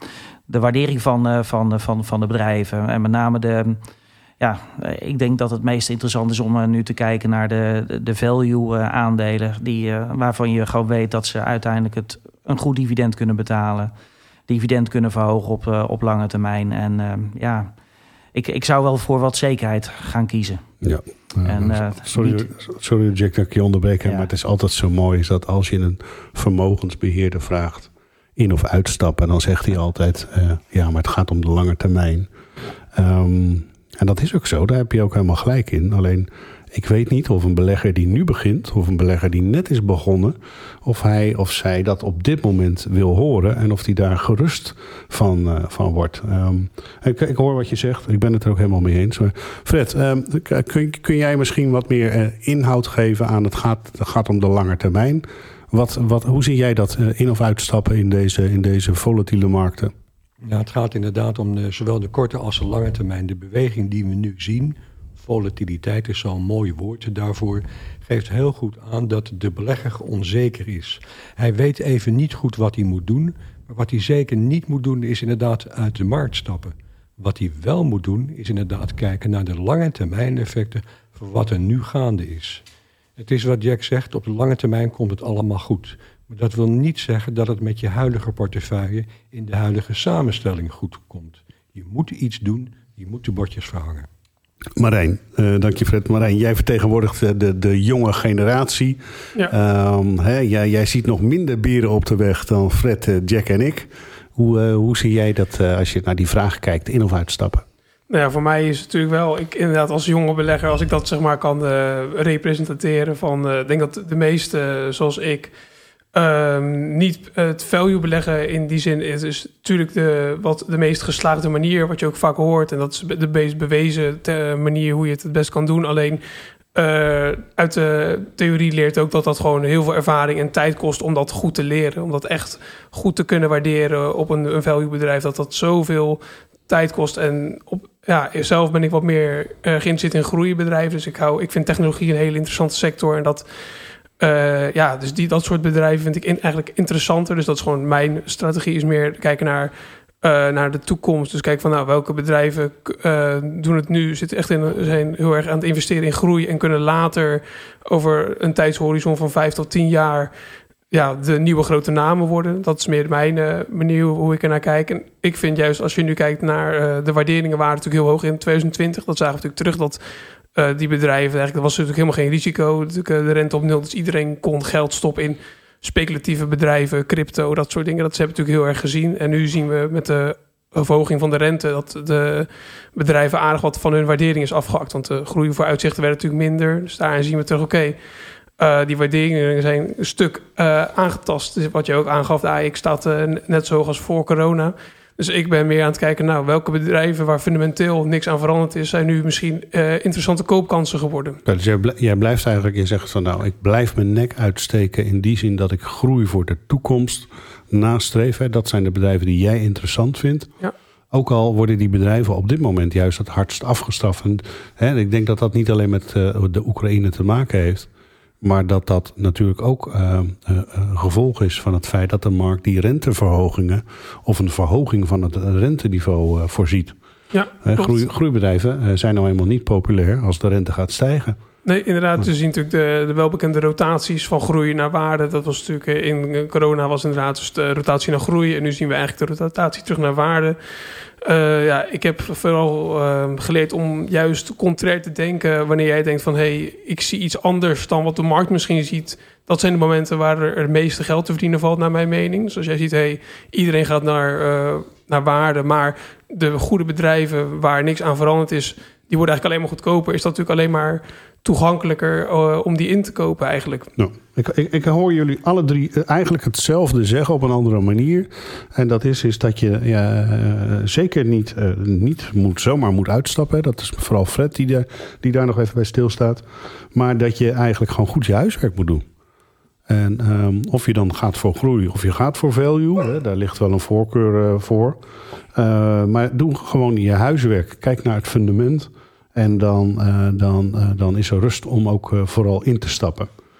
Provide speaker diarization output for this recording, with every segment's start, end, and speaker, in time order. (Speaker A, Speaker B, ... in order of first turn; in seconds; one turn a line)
Speaker A: 0.5-3.8
Speaker A: 4.4-13.9
Speaker A: 14.5-17.7
Speaker A: 18.3-20.7
Speaker B: 20.8-32.3
Speaker A: 21.4-22.5
Speaker B: 32.9-59.9
Speaker C: 60.4-82.6
Speaker C: 83.2-94.1
Speaker B: 94.8-107.6
Speaker D: 108.1-115.5
Speaker D: 116.1-126.2
Speaker D: 126.7-143.5
Speaker D: 144.2-160.3
Speaker D: 160.9-170.0
Speaker D: 170.5-188.0
Speaker D: 188.6-201.4
Speaker B: 201.4-210.5
Speaker B: 211.1-217.9
Speaker B: 218.4-226.9
Speaker D: 227.3-227.9
Speaker B: 227.6-231.4
Speaker D: 231.6-240.6
Speaker D: 241.2-263.9
Speaker B: 264.0-279.0
Speaker B: 279.9-285.0
Speaker B: 285.5-293.3